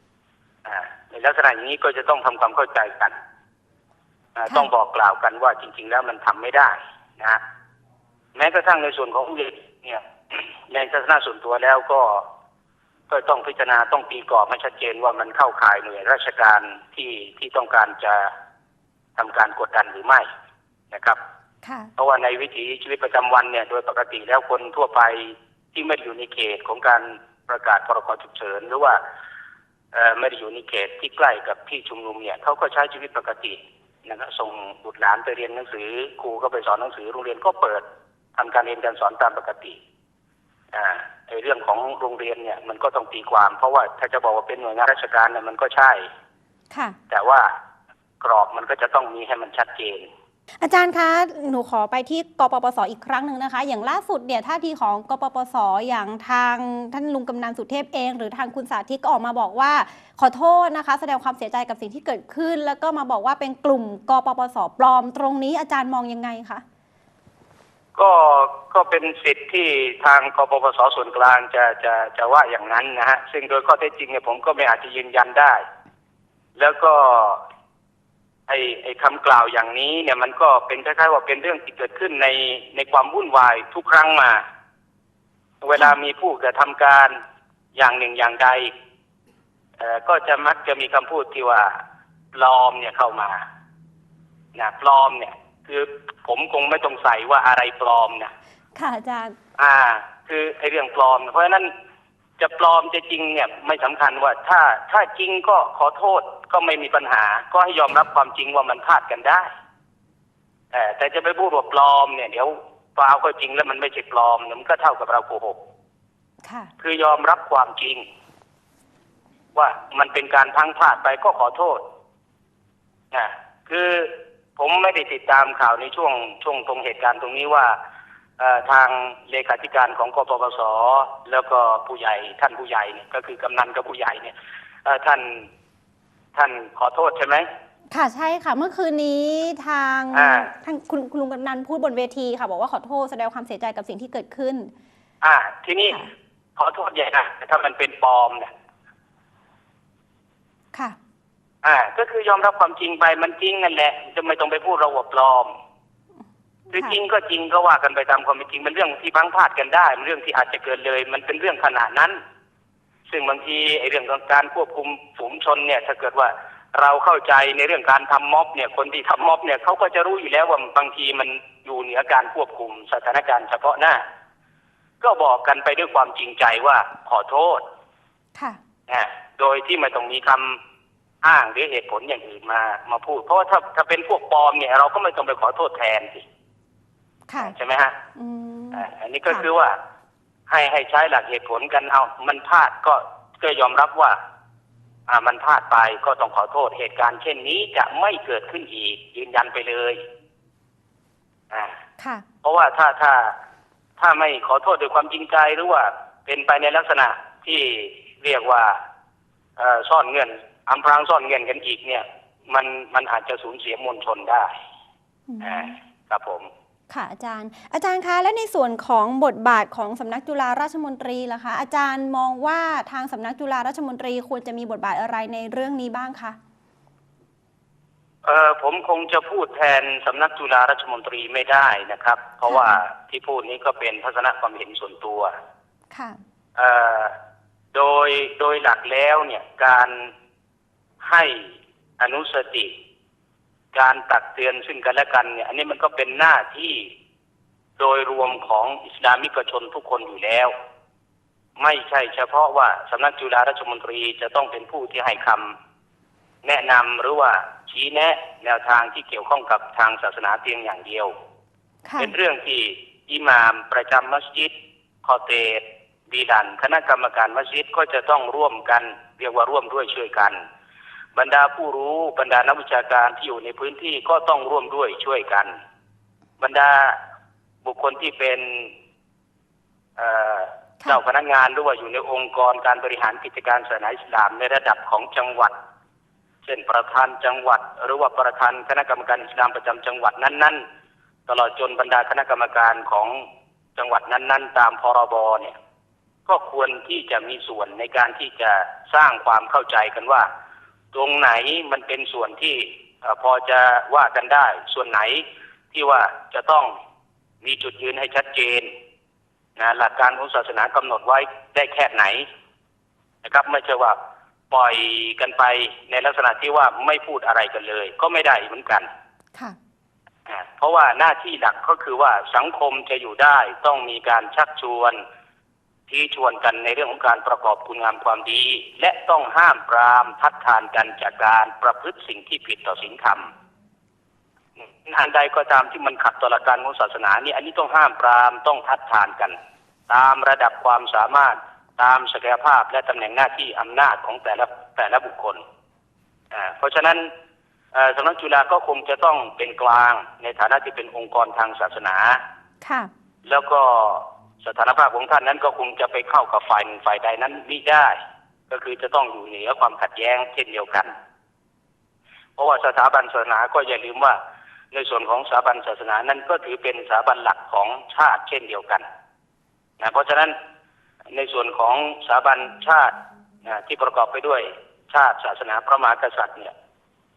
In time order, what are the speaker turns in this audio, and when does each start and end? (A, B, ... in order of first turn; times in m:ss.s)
0:00.6-0:03.2 A
0:04.4-0:07.4 A
0:08.4-0:12.3 A
0:13.1-0:18.3 A
0:19.2-0:20.3 A
0:20.9-0:21.2 A
0:21.6-0:21.9 B
0:22.0-0:29.0 A
0:29.9-0:37.8 A
0:38.4-0:39.8 A
0:40.7-0:46.1 A
0:46.7-0:47.0 B
0:47.1-0:47.5 A
0:48.2-0:50.1 A
0:50.6-1:06.6 B
1:08.0-1:15.6 A
1:16.6-1:17.4 A
1:18.5-1:24.4 A
1:25.6-1:27.2 A
1:27.8-1:28.7 A
1:29.8-1:31.8 A
1:32.3-1:33.4 A
1:34.6-1:38.3 A
1:38.8-1:39.4 B
1:39.6-1:41.7 A
1:42.4-1:49.5 A
1:50.7-1:55.6 A
1:56.4-1:56.7 B
1:56.8-1:58.0 A
1:59.6-2:01.8 A
2:03.1-2:07.8 A
2:08.4-2:14.3 A
2:14.8-2:15.5 A
2:16.4-2:17.5 A
2:17.9-2:24.7 B
2:20.1-2:20.5 A
2:25.2-2:26.0 A
2:26.6-2:28.5 A
2:31.6-2:35.5 A
2:36.7-2:37.0 B
2:36.7-2:42.2 A
2:43.1-2:54.0 A
2:55.0-2:57.6 A
2:58.9-3:00.6 A
3:01.2-3:06.2 A
3:07.3-3:07.6 B
3:07.4-3:08.0 A
3:08.2-3:09.5 B
3:08.7-3:09.8 A
3:10.5-3:14.2 A
3:15.1-3:20.0 A
3:21.5-3:21.8 A
3:22.0-3:22.2 B
3:22.4-3:23.4 A
3:24.0-3:28.8 A
3:29.6-3:34.6 A
3:35.3-3:35.8 B
3:35.4-3:36.5 A
3:36.9-3:46.4 B
3:48.2-3:55.3 A
3:52.5-3:52.8 B
3:55.9-3:56.2 B
3:56.6-3:57.2 A
3:57.7-4:00.1 A
4:01.0-4:02.7 A
4:03.7-4:06.9 A
4:07.8-4:10.5 A
4:11.6-4:15.6 A
4:16.4-4:21.1 A
4:21.8-4:22.1 B
4:22.0-4:24.5 A
4:25.0-4:30.4 A
4:31.2-4:35.6 A
4:36.4-4:37.0 A
4:37.6-4:38.7 A
4:40.0-4:45.6 A
4:46.4-4:50.6 A
4:51.3-4:55.6 A
4:56.3-5:00.3 A
5:00.9-5:06.7 A
5:07.4-5:08.7 A
5:09.6-5:12.3 A
5:13.2-5:14.0 A
5:14.5-5:18.9 A
5:20.3-5:25.0 A
5:25.9-5:33.3 A
5:34.6-5:39.4 A
5:39.9-5:45.4 A
5:46.3-5:47.1 A
5:47.7-5:52.2 A
5:52.6-5:52.9 B
5:53.2-5:58.0 A
5:58.5-6:00.9 A
6:02.4-6:04.2 A
6:04.7-6:08.8 A
6:09.8-6:10.4 A
6:11.1-6:12.9 A
6:13.4-6:16.5 A